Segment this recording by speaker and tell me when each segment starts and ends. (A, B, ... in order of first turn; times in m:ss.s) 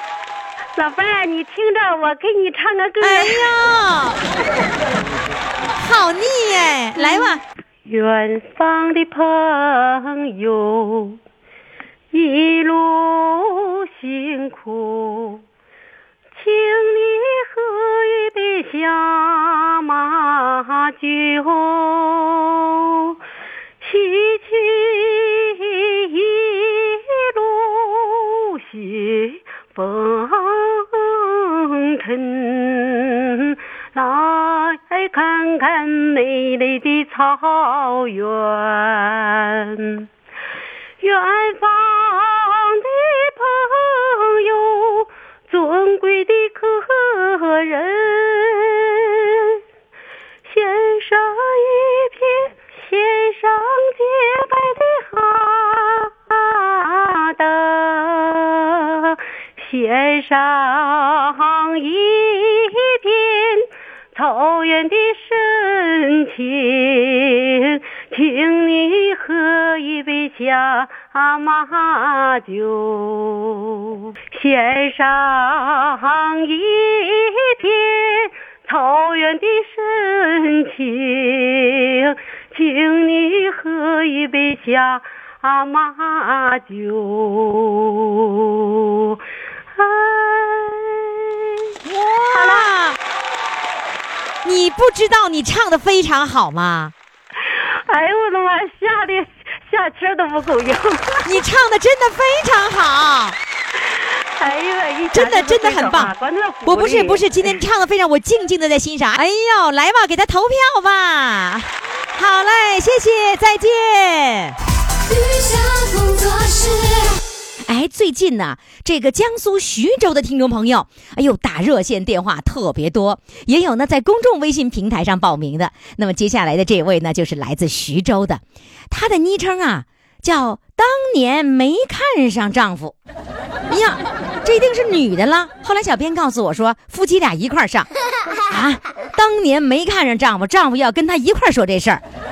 0:00.8-0:03.5 A
0:03.0-0:04.2 B
0:05.8-0:07.4 B
0:07.0-0:11.2 A
0:12.1-0:15.4 A
0:16.4-0:23.2 A
0:23.8-0:40.1 A
0:41.0-0:49.6 A
0:50.5-1:29.2 A
1:29.8-1:31.7 A
1:31.8-1:33.0 B
1:32.3-1:32.7 A
1:34.4-1:36.9 B
1:37.4-1:41.3 A
1:41.2-1:43.4 B
1:43.8-1:47.5 A
1:45.1-1:46.1 B
1:46.6-1:54.6 B
1:55.1-1:57.2 C
1:57.7-2:13.0 B
2:13.7-2:17.9 B
2:18.5-2:22.0 B